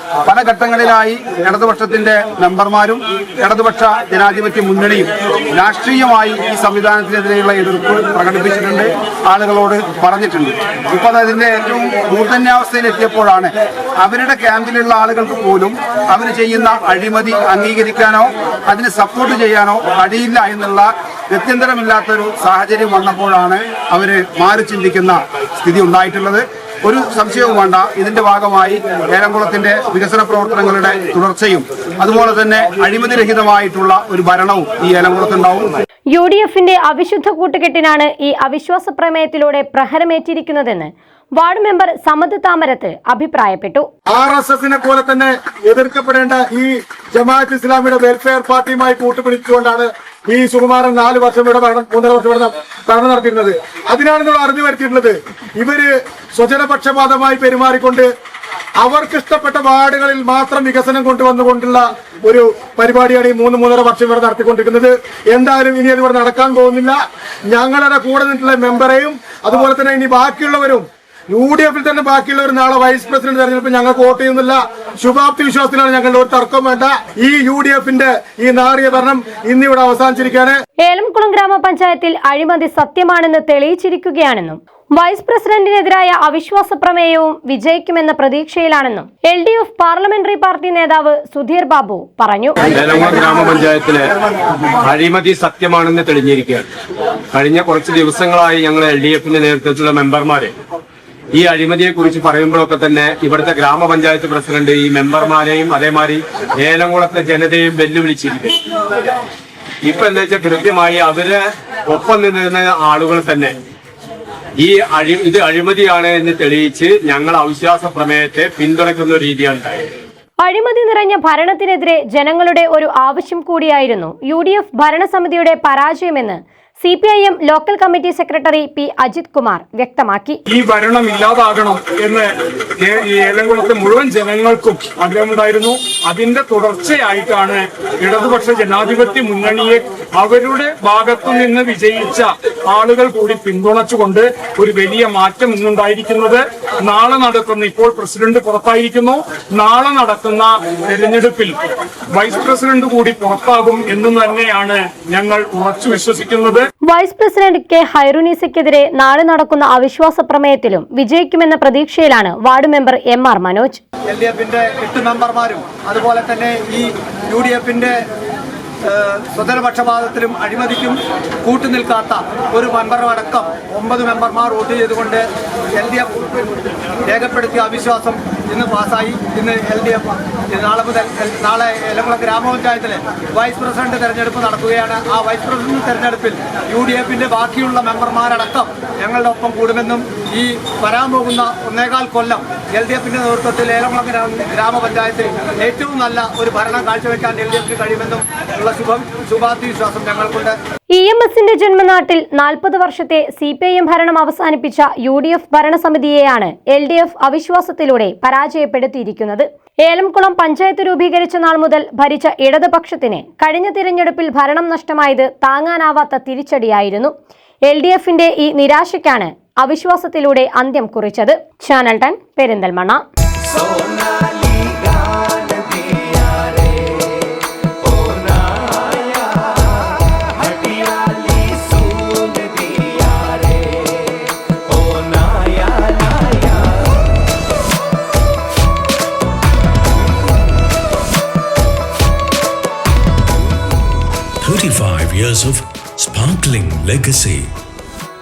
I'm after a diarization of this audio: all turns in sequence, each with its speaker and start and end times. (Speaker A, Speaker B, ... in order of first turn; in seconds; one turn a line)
Speaker A: 0.2-35.8
Speaker B: 36.1-43.9
Speaker C: 44.1-58.1
Speaker C: 58.8-80.6
Speaker B: 80.8-92.6
Speaker D: 92.7-94.1
Speaker D: 94.8-96.7
Speaker D: 97.3-100.5
Speaker D: 101.3-108.5
Speaker D: 109.8-113.5
Speaker D: 114.6-119.9
Speaker B: 120.4-130.4
Speaker E: 130.5-151.6
Speaker E: 152.1-156.6
Speaker B: 156.9-163.8
Speaker F: 164.1-167.9
Speaker F: 168.9-175.2
Speaker F: 175.8-176.5
Speaker F: 177.1-200.6
Speaker B: 200.9-217.1
Speaker B: 217.7-223.0
Speaker G: 244.4-247.5